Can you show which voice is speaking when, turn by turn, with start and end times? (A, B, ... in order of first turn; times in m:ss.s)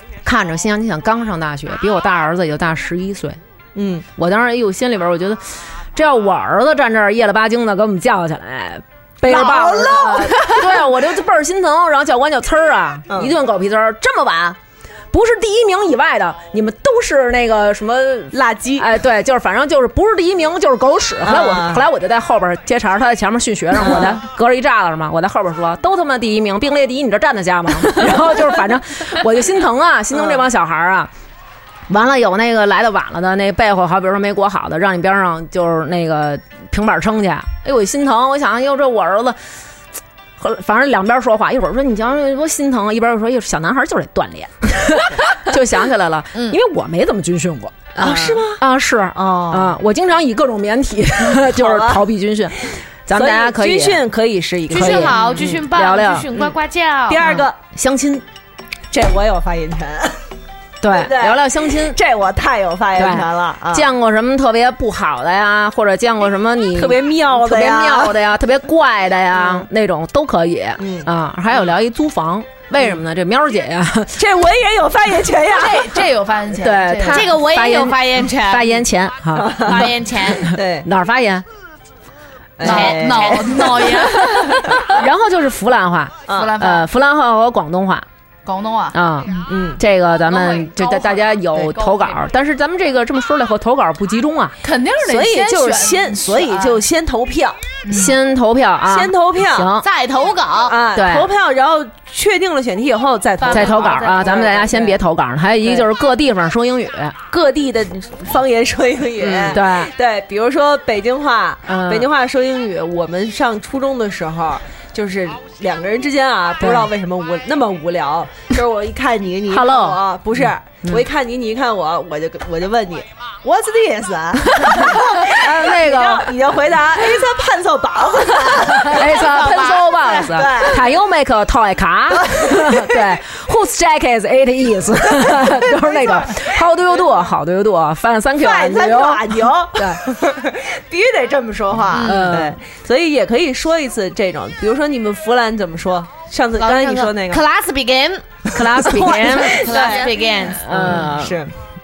0:00.2-0:03.4 A
0:03.8-0:04.0 B
0:04.2-0:14.6 A
0:09.2-0:10.7 B
0:13.1-0:13.3 B
0:15.1-0:31.1 A
0:18.3-0:18.9 B
0:21.2-0:21.8 B
0:23.8-0:24.2 B
0:31.9-0:39.4 A
0:40.4-0:54.0 A
0:48.0-0:48.6 B
0:49.2-0:49.6 B
0:51.5-0:52.0 B
0:52.6-0:55.5 B
0:54.7-0:56.3 A
0:54.7-0:57.2 C
0:57.1-0:57.6 B
0:57.2-0:58.2 A
0:58.9-1:00.2 B
1:00.8-1:02.0 A
1:00.9-1:03.9 B
1:03.0-1:14.3 A
1:06.7-1:08.2 B
1:09.3-1:09.7 B
1:10.8-1:11.1 B
1:14.2-1:16.1 B
1:15.6-1:17.2 D
1:16.6-1:21.4 A
1:17.0-1:18.7 C
1:19.3-1:20.9 B
1:19.7-1:20.5 C
1:22.6-1:24.9 B
1:22.6-1:24.5 C
1:22.6-1:24.3 D
1:24.9-1:28.1 A
1:26.3-1:26.6 B
1:26.4-1:26.8 D
1:28.4-1:29.5 D
1:28.9-1:34.6 A
1:29.5-1:29.8 B
1:30.3-1:31.2 C
1:34.6-1:36.8 D
1:35.0-1:37.6 B
1:37.9-1:38.1 D
1:37.9-1:39.9 A
1:38.9-1:39.7 B
1:39.8-1:40.8 C
1:40.7-1:45.0 B
1:40.9-1:41.3 A
1:43.5-1:47.2 A
1:47.3-2:09.3 B
1:49.2-1:49.9 A
1:51.7-1:52.1 A
1:56.6-1:56.9 A
1:59.5-2:01.0 A
2:04.6-2:06.4 A
2:08.8-2:20.0 A
2:09.0-2:10.4 C
2:10.3-2:10.9 B
2:12.2-2:13.0 B
2:18.4-2:27.4 B
2:21.9-2:22.6 A
2:21.9-2:22.3 C
2:26.6-2:30.9 C
2:28.6-2:29.9 A
2:28.6-2:31.5 B
2:30.4-2:31.4 A